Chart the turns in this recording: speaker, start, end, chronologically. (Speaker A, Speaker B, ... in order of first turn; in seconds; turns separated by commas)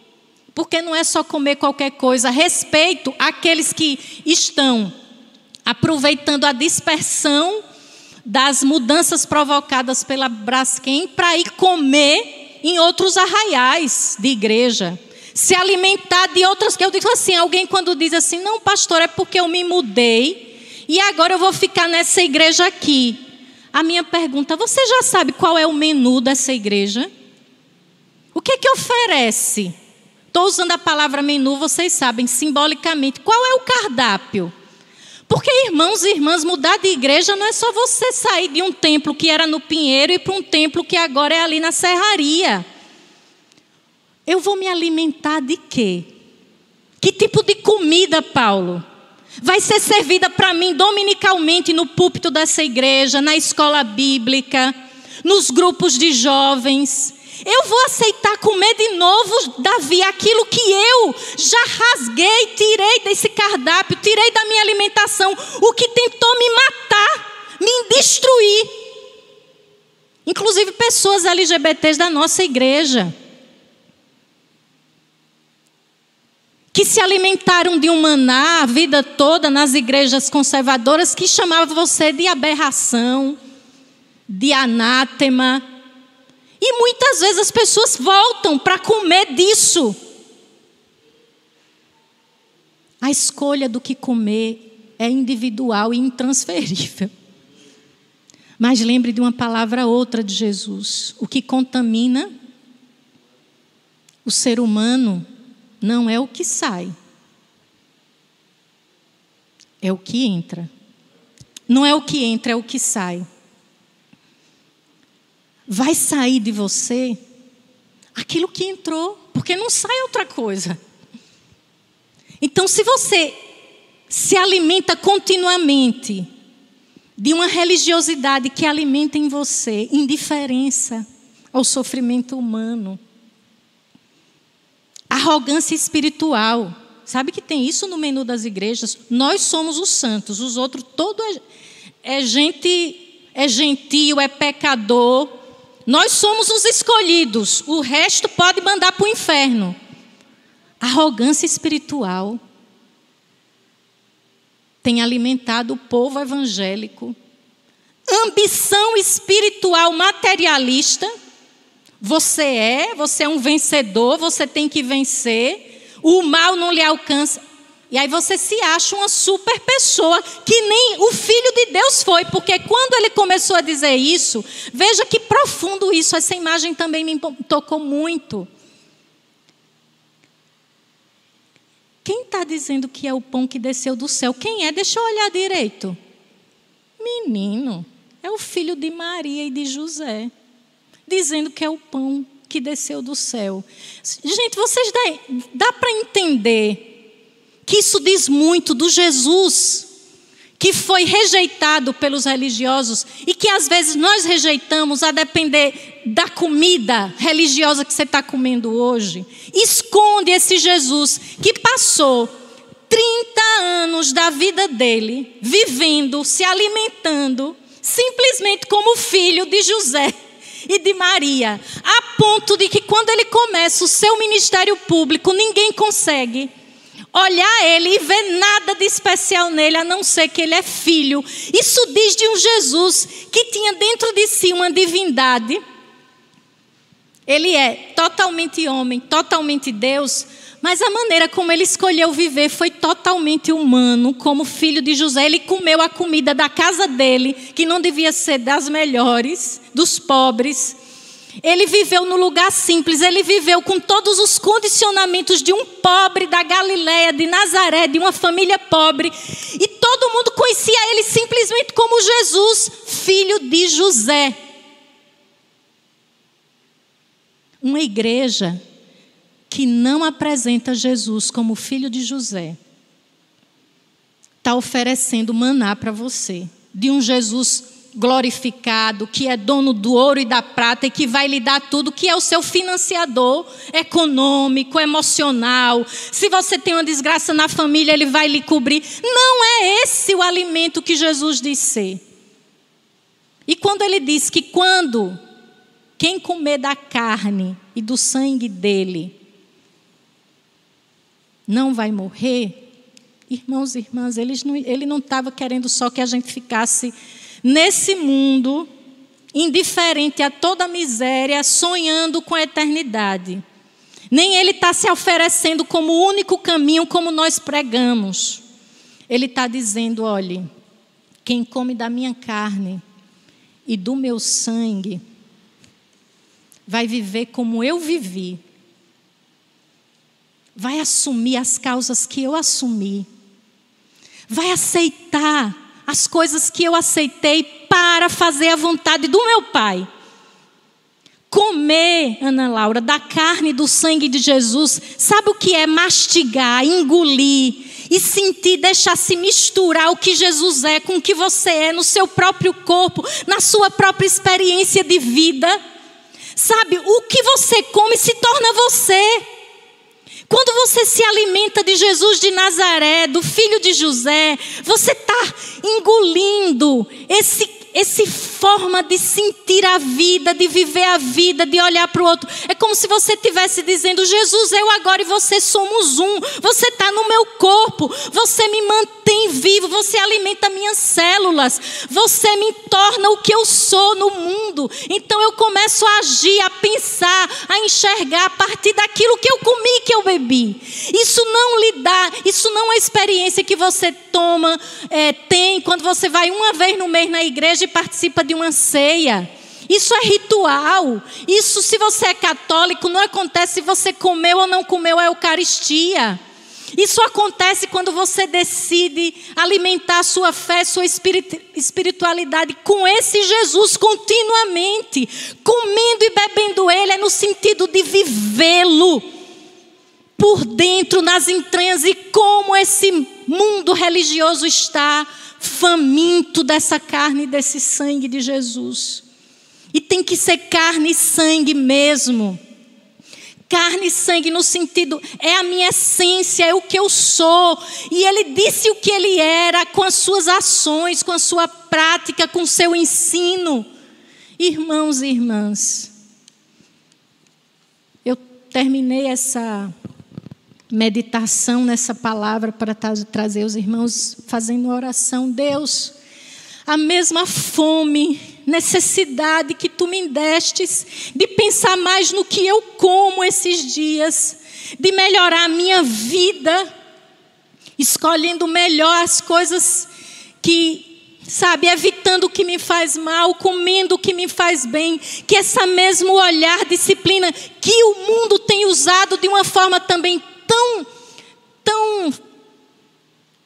Speaker A: 0.5-4.9, Speaker A: 5.7-7.6, Speaker A: 8.3-23.2, Speaker A: 23.7-27.1, Speaker A: 28.4-29.7, Speaker A: 30.3-34.5, Speaker A: 35.3-42.6, Speaker A: 44.3-46.1, Speaker A: 47.0-48.8, Speaker A: 49.4-68.7, Speaker A: 70.2-73.1, Speaker A: 76.7-83.4, Speaker A: 84.3-85.6, Speaker A: 86.6-90.0, Speaker A: 93.0-97.1, Speaker A: 98.6-102.3, Speaker A: 104.2-105.2, Speaker A: 105.8-106.9, Speaker A: 109.8-110.7, Speaker A: 111.7-113.3, Speaker A: 115.7-117.2, Speaker A: 118.2-120.8, Speaker A: 122.4-123.4, Speaker A: 124.1-126.3, Speaker A: 127.2-133.0, Speaker A: 135.1-141.4, Speaker A: 142.0-149.8, Speaker A: 150.8-152.4, Speaker A: 154.8-157.2, Speaker A: 158.1-161.1, Speaker A: 162.0-178.5, Speaker A: 182.0-186.0, Speaker A: 187.0-190.3, Speaker A: 191.1-196.9, Speaker A: 197.7-199.9, Speaker A: 200.6-212.3, Speaker A: 212.9-220.1, Speaker A: 220.7-226.5, Speaker A: 227.1-235.6, Speaker A: 237.3-250.8, Speaker A: 251.4-264.4, Speaker A: 267.6-268.6, Speaker A: 269.5-272.6, Speaker A: 274.4-292.0, Speaker A: 293.5-295.2, Speaker A: 296.0-299.1, Speaker A: 301.5-302.6, Speaker A: 303.3-308.7, Speaker A: 309.3-313.4, Speaker A: 314.1-318.4, Speaker A: 319.1-320.5, Speaker A: 321.2-322.8, Speaker A: 323.7-325.0, Speaker A: 326.7-328.4, Speaker A: 330.6-333.1, Speaker A: 334.3-339.9, Speaker A: 341.3-355.6, Speaker A: 356.4-359.2, Speaker A: 360.3-406.2, Speaker A: 406.8-419.0, Speaker A: 420.2-429.0, Speaker A: 429.7-432.4, Speaker A: 433.5-443.7, Speaker A: 444.4-445.9, Speaker A: 448.1-449.7, Speaker A: 450.7-455.9, Speaker A: 456.7-466.7, Speaker A: 467.8-469.9, Speaker A: 470.4-480.9, Speaker A: 481.6-482.2